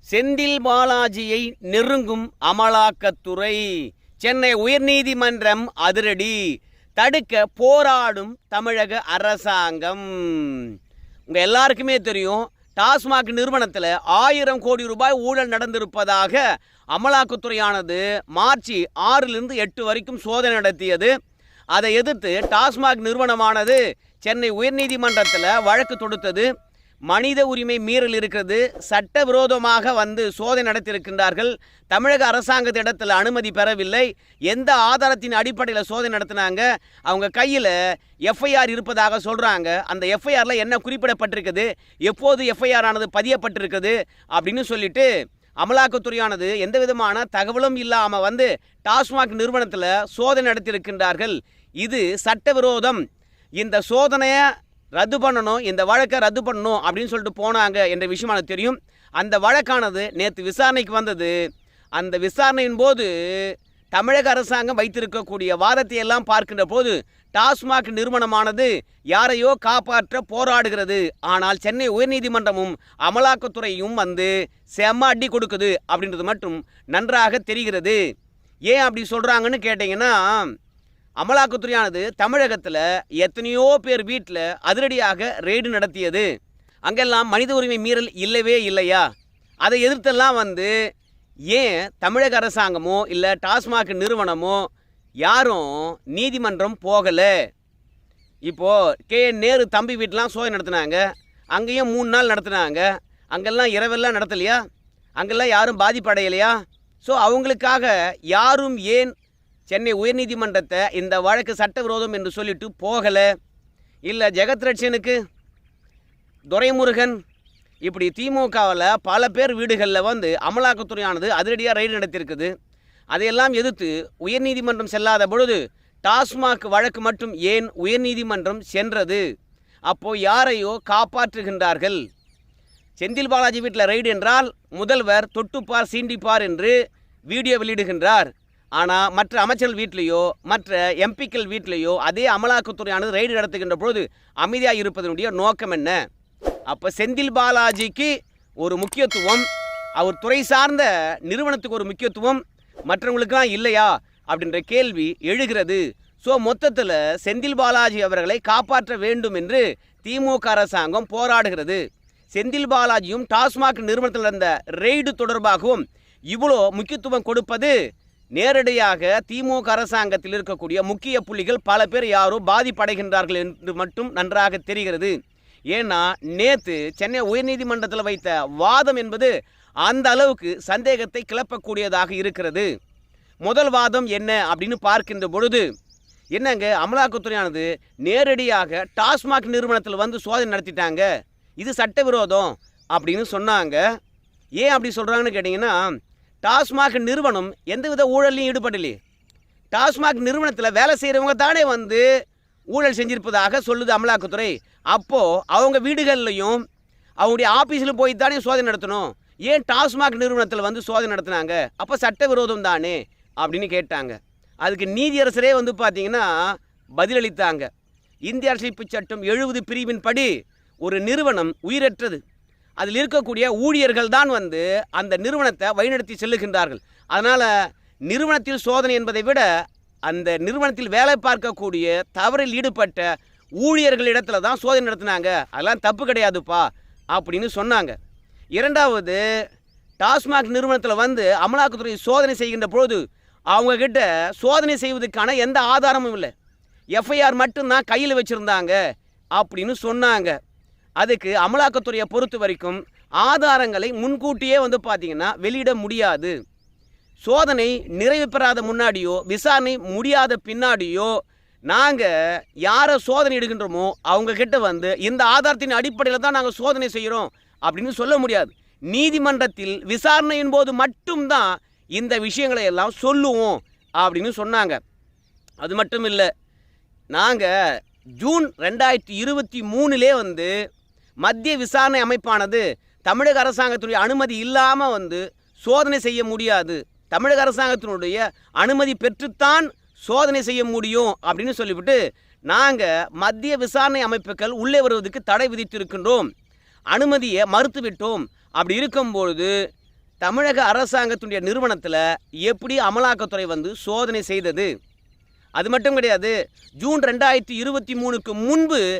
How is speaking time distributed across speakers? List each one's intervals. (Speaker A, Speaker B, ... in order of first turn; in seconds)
Speaker A: 0.1-6.4, 7.0-10.7, 11.3-16.4, 16.9-21.1, 21.7-26.5, 27.1-37.8, 38.3-45.1, 45.6-53.0, 53.6-54.5, 55.0-61.4, 62.0-78.0, 78.7-80.5, 81.2-86.3, 86.9-89.1, 89.6-90.7, 91.5-94.7, 95.2-97.3, 98.5-104.6, 105.2-109.1, 109.7-113.3, 114.1-115.2, 116.5-117.2, 117.8-122.5, 123.1-129.2, 129.9-132.0, 133.0-136.8, 137.3-146.0, 146.7-149.5, 150.0-161.8, 162.3-167.8, 168.4-175.2, 175.7-179.3, 179.8-182.7, 183.4-185.7, 186.4-191.1, 191.6-193.8, 194.6-199.0, 199.7-202.1, 202.7-206.6, 207.2-217.7, 218.3-220.3, 220.8-222.2, 222.8-227.6, 228.1-229.5, 230.1-238.0, 238.6-239.2, 240.0-243.0, 243.5-246.3, 246.9-248.8, 249.4-250.4, 251.0-256.4, 257.2-261.1, 261.7-262.1, 262.7-274.8, 275.6-276.3, 277.1-277.5, 278.2-280.5, 281.2-296.3, 296.9-299.5, 300.2-304.7, 305.6-308.9